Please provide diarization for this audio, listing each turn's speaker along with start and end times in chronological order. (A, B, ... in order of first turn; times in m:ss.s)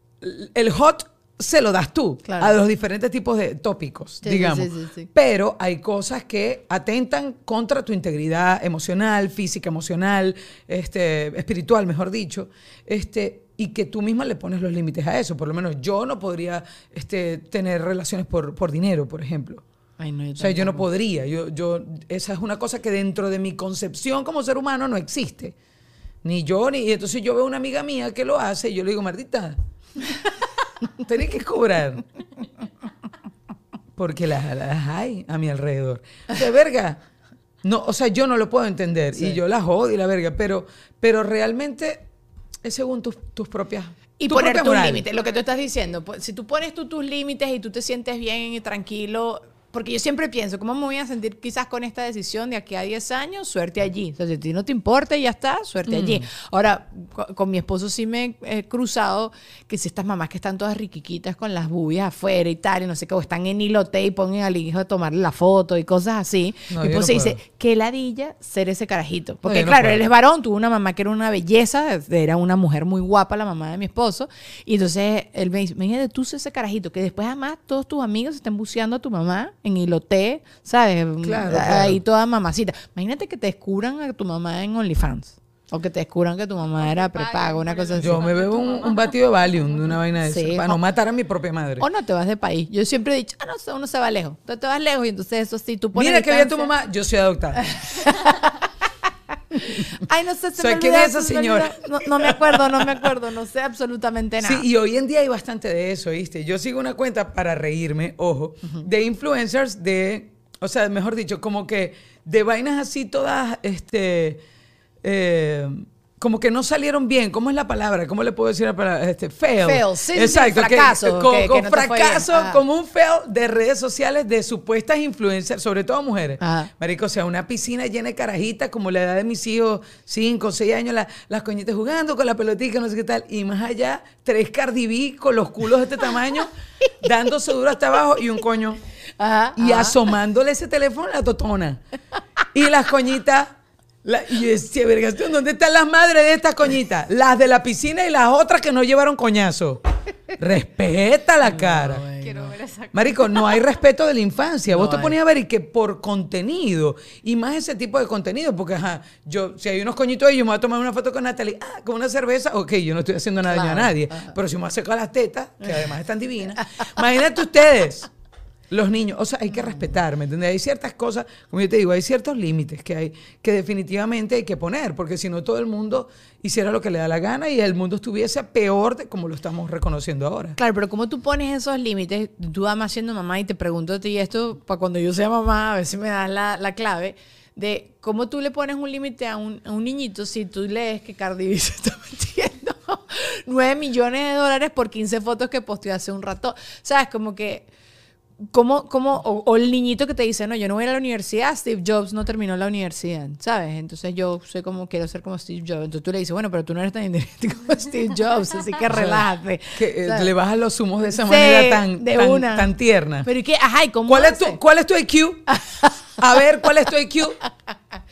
0:00.2-0:19.6 A
0:02.2-0:02.5 B
0:04.2-0:05.1 B
0:20.0-0:20.9 B
0:20.4-0:25.5 A
0:26.2-0:29.6 A
0:30.9-0:32.0 A
0:34.0-0:37.0 A
0:37.6-0:42.0 A
0:42.6-0:45.0 A
0:44.2-1:28.3 B
0:45.1-0:46.0 C
0:55.8-0:56.3 A
1:06.7-1:07.4 A
1:09.4-1:10.0 A
1:21.2-1:22.0 A
1:26.8-1:30.0 C
1:28.0-1:31.9 A
1:30.2-1:30.8 B
1:31.8-1:36.7 B
1:35.9-1:37.8 A
1:37.6-1:38.6 B
1:39.5-1:44.6 B
1:40.6-1:43.1 A
1:44.4-1:54.4 A
1:55.0-2:18.8 A
1:59.6-2:02.6 B
2:06.4-2:06.7 B
2:19.2-2:20.0 B
2:19.6-2:21.8 A
2:22.5-2:29.8 A
2:30.4-2:32.1 A
2:31.4-2:32.5 B
2:32.2-2:33.6 C
2:32.9-2:48.1 A
2:34.7-2:35.1 B
2:43.5-2:44.3 B
2:45.6-2:45.9 B
2:48.7-3:00.6 A
2:49.6-2:49.9 B
3:00.6-3:17.7 B
3:18.5-3:30.3 B
3:28.9-3:33.3 A
3:31.1-3:32.7 B
3:33.2-3:34.6 B
3:34.1-3:35.5 A
3:35.5-3:36.4 B
3:36.2-3:37.4 A